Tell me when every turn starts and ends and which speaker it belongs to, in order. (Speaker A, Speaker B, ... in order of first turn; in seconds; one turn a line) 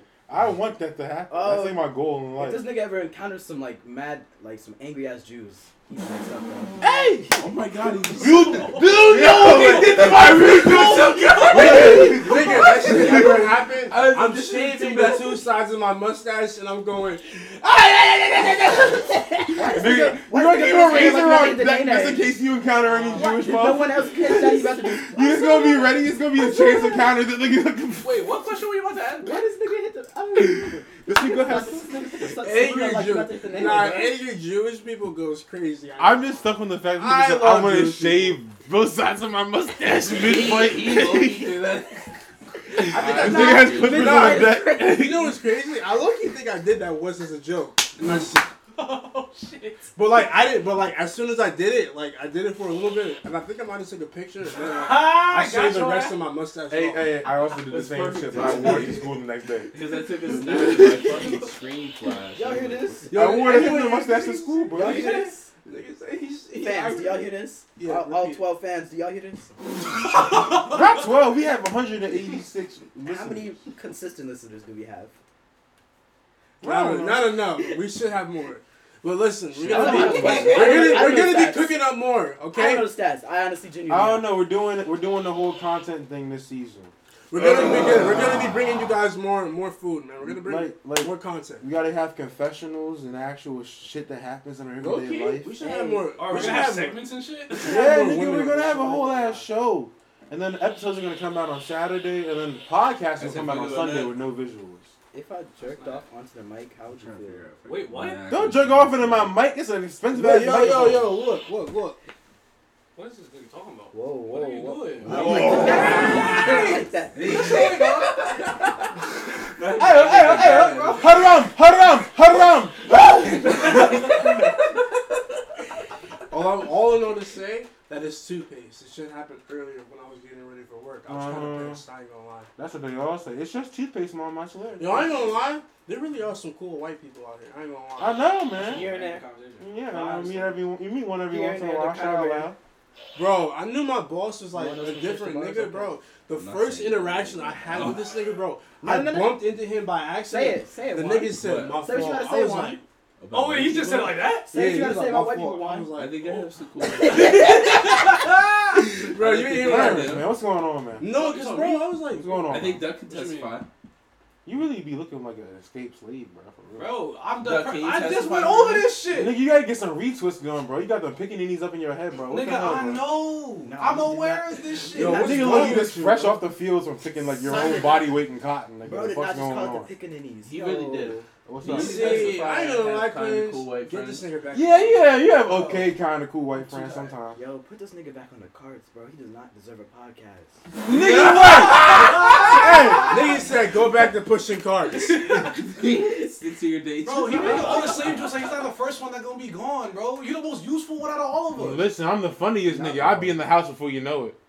Speaker A: 0.3-2.7
Speaker B: 1.3-7.2
Speaker A: 6.8-7.3
Speaker C: 7.3-15.5
Speaker A: 8.2-13.5
Speaker D: 8.2-9.0
Speaker D: 9.5-9.9
Speaker D: 11.4-11.8
Speaker E: 11.6-17.6
Speaker B: 19.5-22.3
Speaker A: 19.6-28.4
Speaker D: 22.9-23.3
Speaker B: 23.1-27.1
Speaker D: 28.0-29.4
Speaker B: 29.2-34.2
Speaker A: 30.4-31.9
Speaker E: 32.3-36.3
Speaker A: 36.0-41.7
Speaker E: 37.0-38.4
Speaker C: 40.0-42.1
Speaker A: 42.7-45.3
Speaker C: 42.8-44.4
Speaker B: 42.9-45.1
Speaker E: 43.9-48.5
Speaker D: 48.8-49.9
Speaker E: 50.0-57.2
Speaker D: 54.6-56.2
Speaker A: 56.7-59.7
Speaker C: 57.6-63.1
Speaker B: 62.4-63.7
Speaker E: 63.1-64.8
Speaker A: 63.1-65.1
Speaker D: 64.7-65.3
Speaker B: 64.7-65.5
Speaker E: 65.6-68.5
Speaker B: 66.6-69.9
Speaker D: 70.0-71.0
Speaker A: 70.7-73.5
Speaker B: 73.0-75.1
Speaker A: 76.6-77.3
Speaker E: 76.6-82.9
Speaker A: 79.6-81.0
Speaker B: 79.7-81.8
Speaker D: 80.3-80.6
Speaker B: 82.5-84.4
Speaker A: 83.9-88.5
Speaker E: 87.3-91.7
Speaker A: 90.2-95.5
Speaker E: 94.8-99.0
Speaker B: 95.6-96.1
Speaker D: 96.1-98.0
Speaker A: 97.6-104.9
Speaker C: 103.2-104.2
Speaker B: 105.1-107.5
Speaker D: 105.6-106.0
Speaker C: 107.0-109.4
Speaker D: 107.6-108.3
Speaker A: 108.3-111.2
Speaker E: 110.1-112.0
Speaker D: 113.0-118.5
Speaker B: 113.9-118.2
Speaker C: 115.0-116.4
Speaker A: 115.1-116.3
Speaker C: 117.4-118.9
Speaker C: 119.5-121.3
Speaker A: 119.8-124.2
Speaker D: 120.0-121.1
Speaker C: 123.3-124.2
Speaker D: 123.5-124.1
Speaker E: 126.3-132.5
Speaker A: 131.1-131.8
Speaker A: 132.6-135.3
Speaker E: 134.8-138.2
Speaker A: 138.0-138.9
Speaker B: 138.6-139.3
Speaker D: 138.6-140.6
Speaker A: 139.6-142.6
Speaker B: 141.2-142.5
Speaker E: 143.2-152.8
Speaker B: 144.5-146.0
Speaker C: 146.3-148.1
Speaker B: 148.8-149.4
Speaker B: 150.2-152.8
Speaker C: 151.4-151.8
Speaker C: 153.2-154.3
Speaker D: 153.3-154.5
Speaker B: 154.5-155.9
Speaker E: 154.5-156.5
Speaker C: 155.9-157.6
Speaker B: 156.9-157.9
Speaker D: 157.0-158.6
Speaker C: 159.0-160.4
Speaker E: 159.0-160.2
Speaker A: 159.6-161.1
Speaker E: 161.0-162.6
Speaker C: 161.1-161.9
Speaker A: 162.2-162.9
Speaker C: 162.5-163.7
Speaker D: 163.1-163.6
Speaker A: 164.4-167.0
Speaker D: 166.7-169.4
Speaker C: 167.4-169.0
Speaker A: 169.1-173.2
Speaker D: 172.2-175.4
Speaker B: 173.6-175.9
Speaker E: 174.9-176.4
Speaker A: 175.1-179.9
Speaker C: 177.6-178.0
Speaker B: 178.8-181.2
Speaker C: 180.4-184.3
Speaker A: 181.5-182.3
Speaker E: 181.7-185.1
Speaker A: 184.5-187.4
Speaker D: 185.3-185.9
Speaker D: 186.6-187.2
Speaker B: 187.3-190.6
Speaker C: 190.9-192.7
Speaker A: 190.9-193.2
Speaker D: 191.7-193.1
Speaker B: 192.4-193.1
Speaker E: 193.0-195.5
Speaker C: 194.9-198.4
Speaker D: 195.1-195.5
Speaker D: 197.0-201.9
Speaker B: 197.4-197.9
Speaker A: 201.6-204.4
Speaker E: 202.7-203.4